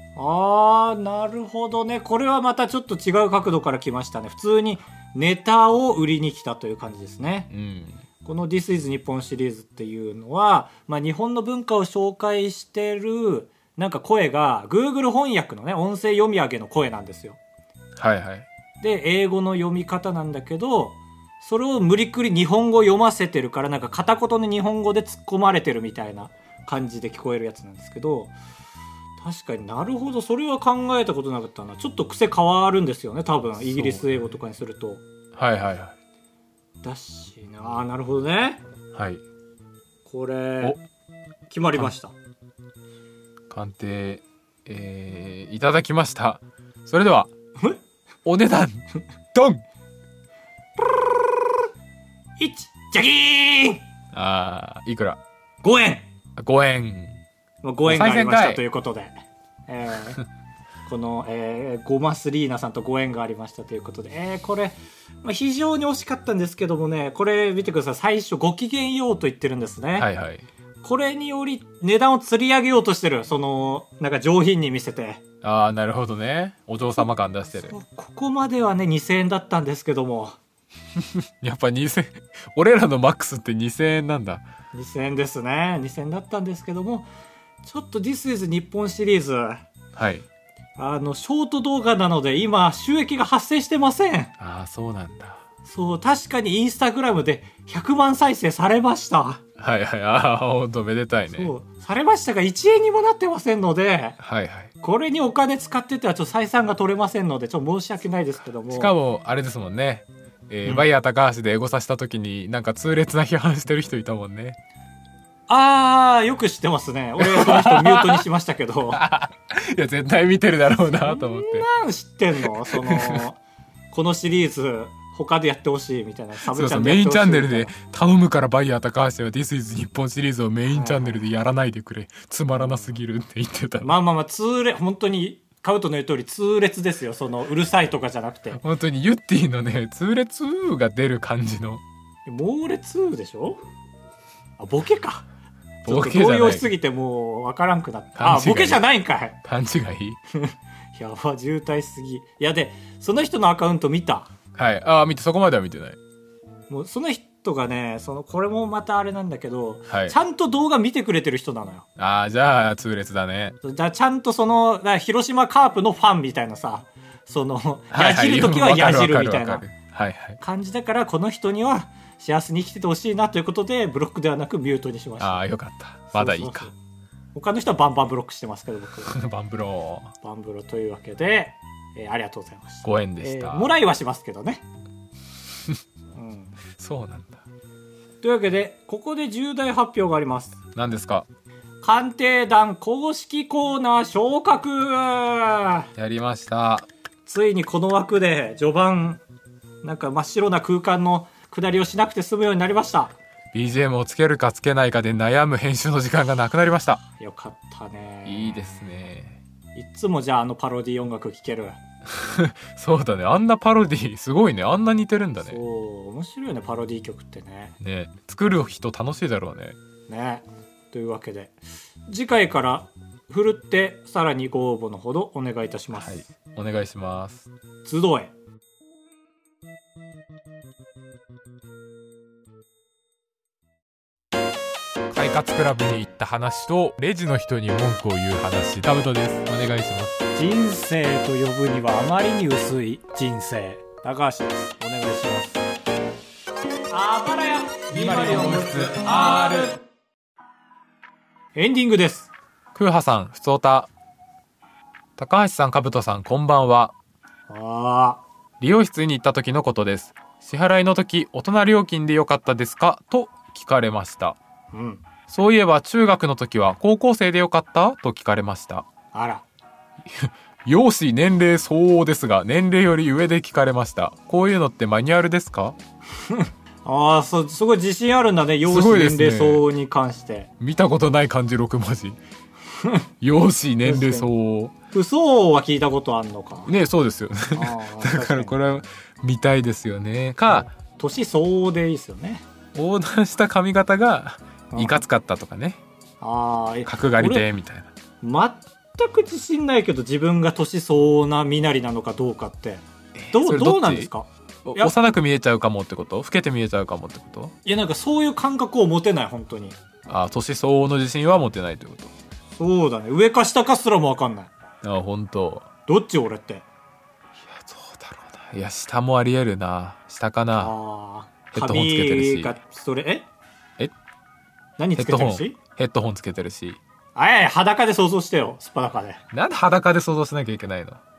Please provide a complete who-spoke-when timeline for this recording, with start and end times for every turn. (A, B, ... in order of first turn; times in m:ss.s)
0:00.2-0:07.5 A
0:07.5-0:08.0 B
0:08.2-0:17.4 A
0:18.0-0:18.5 B
0:18.8-0:28.3 A
0:29.2-0:35.0 A
0:33.6-0:34.1 B
0:35.3-0:35.9 B
0:36.8-0:38.6 A
0:38.9-0:39.2 B
0:40.0-0:40.8 A
0:41.5-0:42.1 A
0:43.5-0:47.3 B
0:48.2-0:49.6 B
0:52.4-0:53.8 A
0:54.1-0:55.2 B
0:55.6-0:56.0 A
0:56.4-0:57.2 B
0:57.6-0:59.1 A
0:57.8-0:58.6 B
0:59.7-1:00.2 A
1:00.9-1:10.1 A
1:10.0-1:10.4 B
1:10.8-1:15.2 A
1:15.4-1:17.7 B
1:17.6-1:20.4 A
1:21.2-1:24.4 B
1:24.7-1:27.0 A
1:27.6-1:29.6 A
1:29.9-1:30.2 B
1:30.8-1:34.3 A
1:34.4-1:35.4 B
1:35.6-1:39.4 A
1:39.6-1:41.5 B
1:41.3-1:44.2 A
1:44.2-1:44.7 B
1:44.8-1:48.9 A
1:48.7-1:54.6 B
1:55.5-1:59.0 A
1:57.2-1:58.2 B
1:58.9-2:01.6 B
2:00.9-2:03.4 A
2:02.7-2:03.2 B
2:03.9-2:07.7 A
2:06.5-2:13.9 B
2:10.7-2:11.2 A
2:13.8-2:18.6 A
2:18.5-2:21.8 B
2:22.2-2:23.6 A
2:24.6-2:25.3 A
2:25.8-2:26.7 B
2:25.8-2:29.4 A
2:28.2-2:28.8 B
2:29.4-2:30.2 B
2:30.3-2:34.3 A
2:34.5-2:36.0 B
2:36.7-2:41.9 A
2:39.9-2:40.1 B
2:42.0-2:43.6 B
2:43.6-2:49.6 A
2:47.9-2:50.4 B
2:50.4-2:55.4 A
2:55.2-2:56.7 B
2:56.1-2:56.7 A
2:57.3-2:59.2 A
2:59.1-3:00.1 B
3:00.2-3:04.6 A
3:02.8-3:03.7 B
3:06.1-3:06.6 A
3:06.8-3:07.4 B
3:08.2-3:10.6 A
3:10.7-3:11.3 B
3:11.8-3:15.9 A
3:16.0-3:16.9 B
3:17.2-3:19.2 A
3:19.8-3:23.1 A
3:23.5-3:27.0 B
3:27.1-3:28.8 A
3:28.2-3:29.4 B
3:29.7-3:31.8 A
3:32.1-3:35.6 B
3:35.4-3:37.8 A
3:37.8-3:39.8 B
3:40.1-3:41.6 A
3:42.1-3:46.3 A
3:45.9-3:47.5 B
3:47.8-3:48.3 A
3:55.1-4:00.2 B
4:00.3-4:05.6 A
4:06.9-4:09.7 A
4:07.9-4:09.8 B
4:11.5-4:12.3 A
4:12.7-4:13.9 B
4:15.2-4:16.9 B
4:17.5-4:18.2 A
4:18.6-4:24.4 B
4:24.7-4:25.0 A
4:25.3-4:28.8 B
4:29.1-4:29.4 A
4:30.0-4:35.8 B
4:36.2-4:40.5 A
4:38.6-4:39.6 B
4:40.6-4:42.2 B
4:42.8-4:43.1 A
4:43.2-4:44.7 B
4:43.8-4:44.3 A
4:44.9-4:46.7 A
4:46.6-4:50.7 B
4:47.5-4:48.6 A
4:51.0-4:52.4 A
4:52.7-4:55.8 B
4:54.7-4:55.0 A
4:56.2-4:57.5 A
4:56.8-4:57.9 B
4:58.2-5:04.9 A
5:03.2-5:04.1 B
5:04.6-5:07.5 B
5:07.6-5:09.8 A
5:10.1-5:12.1 B
5:12.6-5:14.5 A
5:14.8-5:15.7 B
5:15.9-5:16.6 A
5:17.4-5:20.7 B
5:20.6-5:23.3 A
5:21.5-5:22.5 B
5:24.8-5:25.6 A
5:25.0-5:26.8 B
5:27.1-5:29.2 A
5:29.3-5:31.0 B